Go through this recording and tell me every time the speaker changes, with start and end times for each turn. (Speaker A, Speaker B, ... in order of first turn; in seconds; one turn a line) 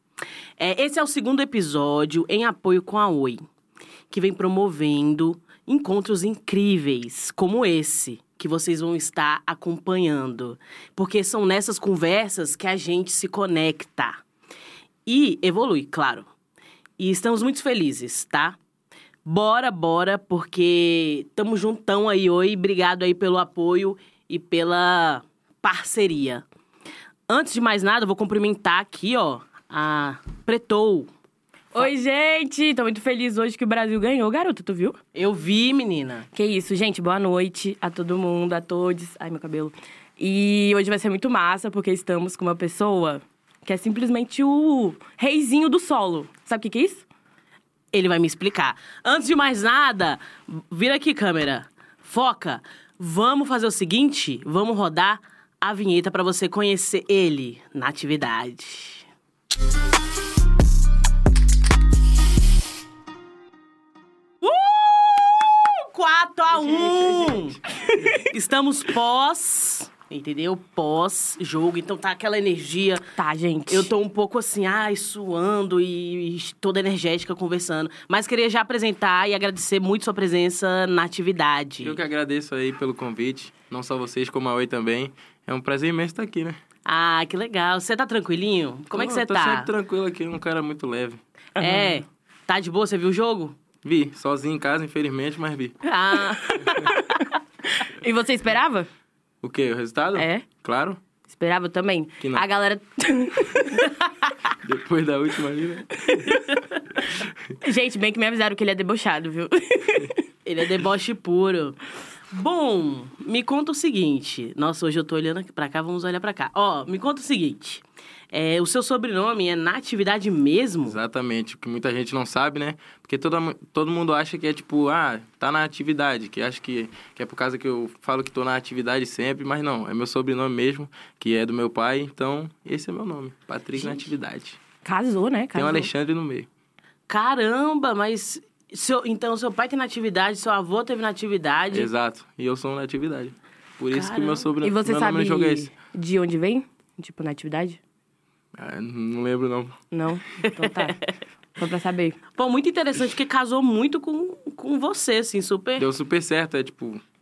Speaker A: 0.6-3.4
Speaker A: 4.1-14.2
Speaker A: 15.1-16.3
Speaker A: 17.0-18.6
Speaker A: 19.2-26.4
Speaker A: 27.3-31.1
Speaker B: 31.7-35.0
Speaker A: 35.1-36.3
Speaker B: 36.3-47.0
Speaker A: 47.9-59.1
Speaker A: 64.4-67.6
Speaker B: 67.7-68.3
Speaker A: 68.2-73.1
Speaker B: 73.1-73.9
Speaker A: 73.7-82.0
Speaker C: 81.8-86.6
Speaker A: 86.8-89.7
Speaker C: 88.9-91.2
Speaker B: 91.6-92.0
Speaker A: 91.6-93.5
Speaker C: 93.8-95.8
Speaker A: 95.8-96.8
Speaker B: 96.4-98.9
Speaker C: 99.4-101.0
Speaker B: 100.1-100.4
Speaker B: 101.3-104.0
Speaker C: 104.6-106.0
Speaker B: 106.1-106.4
Speaker B: 107.6-110.2
Speaker A: 110.4-111.8
Speaker A: 112.3-121.0
Speaker C: 120.8-134.6
Speaker A: 133.8-134.1
Speaker B: 134.8-135.9
Speaker C: 135.5-136.5
Speaker A: 137.1-141.9
Speaker C: 141.7-145.7
Speaker A: 143.9-144.5
Speaker B: 144.6-147.8
Speaker C: 148.5-149.8
Speaker B: 149.9-151.0
Speaker A: 150.6-151.0
Speaker B: 151.6-152.2
Speaker A: 152.3-155.9
Speaker C: 155.8-157.0